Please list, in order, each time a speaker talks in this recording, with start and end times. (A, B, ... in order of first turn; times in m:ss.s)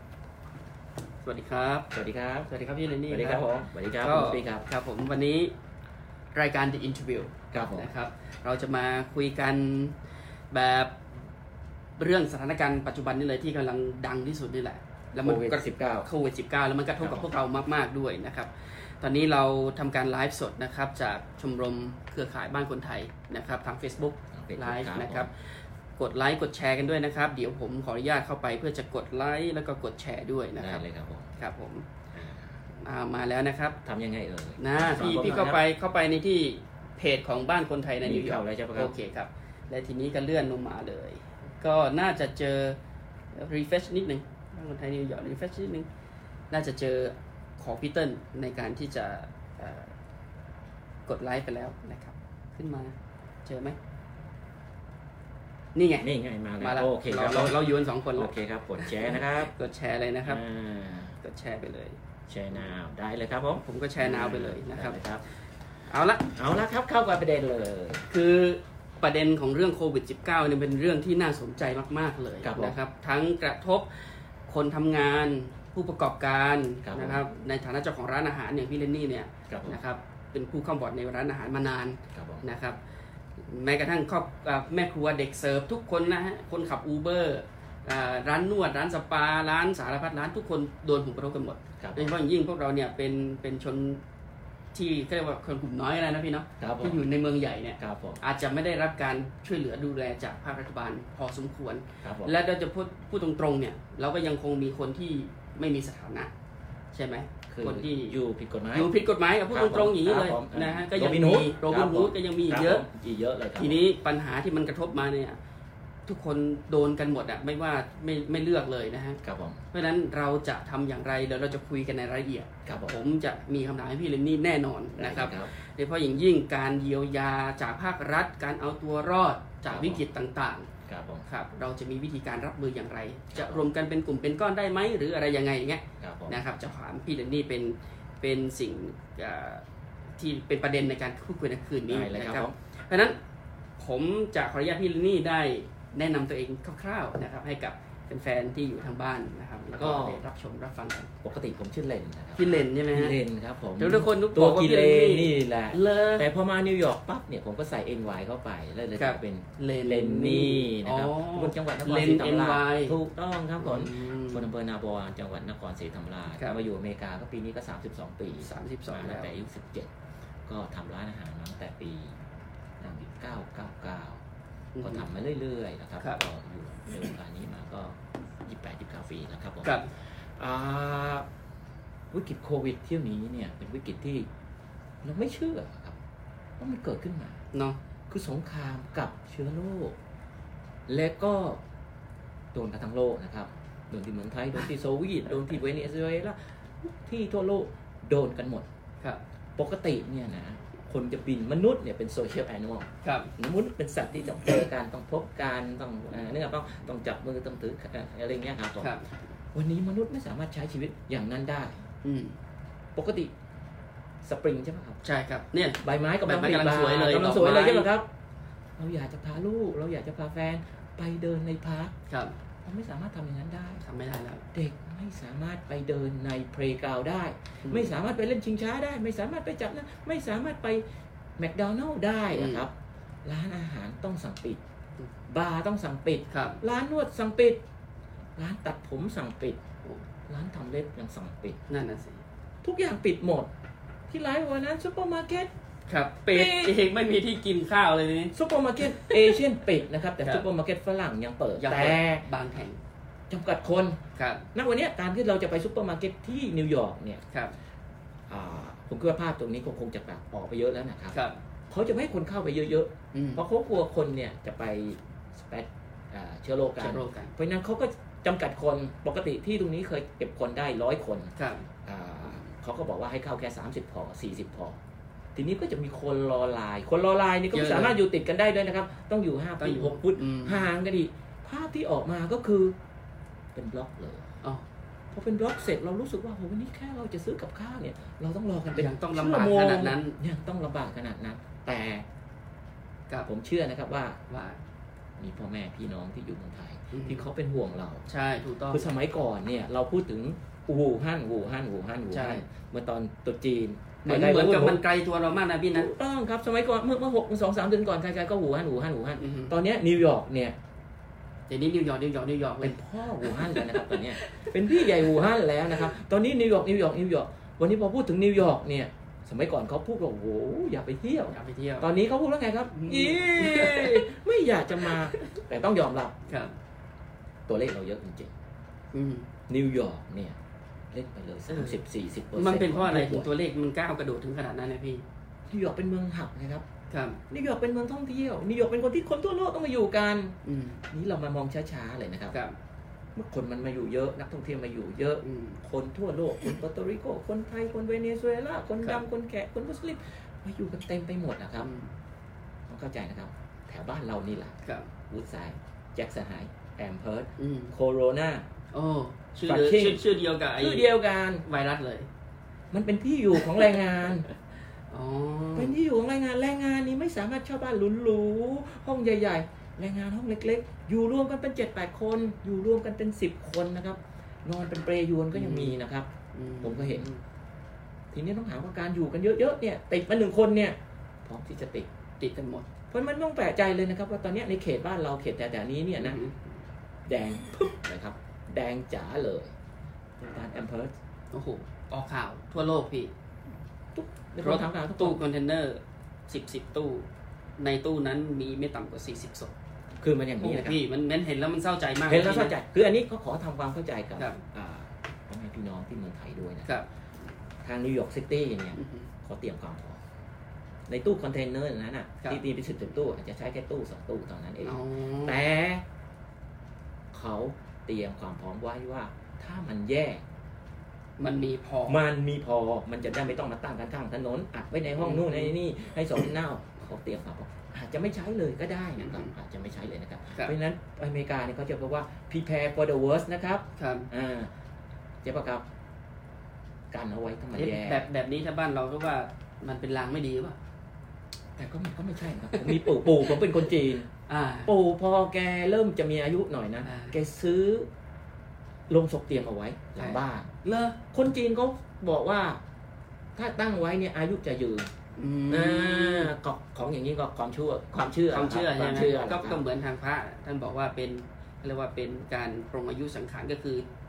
0:01.2-0:01.9 A
0:01.9-0:02.5 B
0:02.5-0:03.5 A
0:03.1-0:04.6 B
0:04.0-0:05.5 A
0:06.3-0:10.0 A
0:07.5-0:07.9 B
0:10.5-0:11.0 A
0:12.0-0:25.3 A
0:15.2-0:16.1 B
0:17.0-0:17.3 B
0:24.3-0:25.3 B
0:26.0-0:30.8 A
0:30.6-0:31.3 B
0:31.4-0:31.9 A
0:32.1-0:32.6 B
0:32.8-0:33.8 A
0:33.8-0:35.6 B
0:34.6-0:42.8 A
0:38.0-0:38.9 B
0:43.3-0:45.9 A
0:46.5-0:49.9 A
0:51.1-0:53.8 A
0:55.7-0:56.1 A
0:56.0-0:57.6 B
0:56.6-1:00.4 A
0:58.1-0:59.5 B
1:00.2-1:01.1 B
1:01.2-1:02.0 A
1:02.3-1:05.2 B
1:03.6-1:05.0 A
1:05.9-1:06.3 A
1:06.4-1:08.0 B
1:08.1-1:13.9 A
1:12.4-1:12.8 B
1:14.5-1:22.8 A
1:16.8-1:17.2 B
1:19.5-1:19.8 B
1:22.1-1:22.4 B
1:23.4-1:34.0 A
1:31.8-1:32.2 B
1:34.7-1:46.3 A
1:36.6-1:37.0 B
1:37.8-1:38.2 B
1:42.0-1:42.3 B
1:46.9-1:48.2 A
1:47.5-1:48.9 B
1:48.7-1:52.8 A
1:49.5-1:53.8 B
1:53.6-1:55.4 A
1:56.1-1:59.2 A
1:59.2-1:59.6 B
1:59.7-2:10.7 A
2:02.6-2:02.9 B
2:05.0-2:05.5 B
2:09.7-2:10.0 B
2:10.9-2:11.2 B
2:11.3-2:19.6 A
2:13.3-2:13.6 B
2:16.0-2:16.4 B
2:20.2-2:23.2 A
2:21.9-2:22.5 B
2:23.8-2:31.1 A
2:29.7-2:30.2 B
2:31.2-2:49.9 B
2:32.4-2:33.2 A
2:33.8-2:36.2 A
2:39.0-2:43.0 A
2:43.6-2:44.4 A
2:48.4-2:49.3 A
2:50.4-2:52.2 B
2:52.8-2:54.2 B
2:54.7-2:55.1 A
2:54.8-2:59.8 B
2:59.6-2:59.9 A
3:00.4-3:01.2 B
3:02.1-3:04.3 B
3:05.0-3:06.0 B
3:06.6-3:07.4 B
3:07.5-3:07.8 A
3:08.1-3:10.0 B
3:10.9-3:11.6 B
3:12.5-3:18.7 B
3:19.6-3:29.0 B
3:23.0-3:23.3 A
3:29.5-3:31.8 B
3:32.0-3:32.4 A
3:32.9-3:33.3 B
3:34.2-3:35.0 B
3:35.0-3:37.9 A
3:35.8-3:38.1 B
3:38.8-3:41.9 B
3:42.1-3:42.3 A
3:42.6-3:43.8 B
3:43.8-3:44.4 A
3:44.5-3:50.8 B
3:47.6-3:47.9 A
3:51.4-3:52.7 B
3:52.3-3:52.6 A
3:53.2-3:54.6 B
3:55.3-3:57.6 B
3:56.3-3:56.6 A
3:58.4-3:59.6 B
4:00.3-4:01.6 B
4:01.7-4:02.2 A
4:02.6-4:03.5 B
4:04.1-4:05.5 B
4:05.9-4:09.4 A
4:06.3-4:06.8 B
4:08.3-4:12.3 B
4:11.6-4:12.8 A
4:13.3-4:14.0 B
4:14.2-4:14.4 A
4:14.5-4:17.2 B
4:18.3-4:21.2 B
4:21.1-4:21.4 A
4:21.7-4:31.3 B
4:23.1-4:23.4 A
4:26.8-4:27.3 A
4:31.4-4:31.6 A
4:31.8-4:34.8 B
4:35.3-4:42.8 B
4:37.5-4:38.0 A
4:39.6-4:40.7 A
4:43.5-4:44.3 B
4:45.1-4:52.0 B
4:48.7-4:50.2 A
4:53.2-4:54.2 B
4:54.3-4:54.6 A
4:55.2-4:58.0 B
4:56.9-4:57.2 A
4:58.1-4:58.8 A
4:58.7-5:04.8 B
5:02.1-5:02.4 A
5:04.0-5:05.9 A
5:05.7-5:10.6 B
5:09.2-5:09.5 A
5:11.5-5:15.2 A
5:12.6-5:26.2 B
5:21.3-5:21.9 A
5:22.7-5:24.1 A
5:24.8-5:25.3 A
5:26.3-5:26.5 A
5:27.5-5:28.3 B
5:28.9-5:29.3 A
5:29.5-5:30.4 B
5:30.9-5:33.3 B
5:31.5-5:31.8 A
5:32.4-5:35.0 A
5:35.5-5:36.6 B
5:36.9-5:37.2 A
5:37.3-5:40.4 B
5:40.4-5:40.8 A
5:40.9-5:42.4 B
5:43.1-5:51.7 B
5:45.2-5:45.6 A
5:51.6-5:51.9 A
5:52.7-5:54.6 B
5:54.6-5:54.9 A
5:55.1-5:58.4 B
5:57.4-5:57.7 A
5:58.7-6:00.9 A
5:59.4-6:00.0 B
6:00.6-6:01.4 B
6:01.4-6:02.1 A
6:02.7-6:04.2 B
6:04.9-6:05.8 A
6:05.5-6:16.1 B
6:15.3-6:15.8 A
6:16.3-6:17.2 A
6:16.6-6:17.1 B
6:18.1-6:21.9 B
6:22.2-6:22.7 A
6:22.9-6:26.2 B
6:26.0-6:26.5 A
6:27.1-6:29.5 B
6:30.2-6:30.9 B
6:31.3-6:33.1 A
6:33.9-6:35.2 B
6:34.4-6:39.5 A
6:40.0-6:40.8 B
6:40.4-6:42.5 A
6:42.1-6:46.7 B
6:47.6-6:50.0 B
6:48.7-6:49.1 A
6:50.9-6:55.8 B
6:54.6-6:55.4 A
6:57.1-7:00.2 B
7:01.2-7:02.0 A
7:01.9-7:14.5 B
7:05.0-7:05.5 A
7:09.0-7:09.3 A
7:13.8-7:14.1 A
7:15.2-7:15.6 B
7:16.9-7:18.0 B
7:17.5-7:20.6 A
7:21.6-7:24.1 B
7:22.5-7:23.4 A
7:24.3-7:24.7 A
7:24.6-7:27.9 B
7:26.8-7:27.2 A
7:28.9-7:30.5 B
7:30.0-7:31.0 A
7:31.1-7:32.6 B
7:33.4-7:34.9 B
7:35.1-7:36.3 A
7:35.5-7:39.6 B
7:38.3-7:43.8 A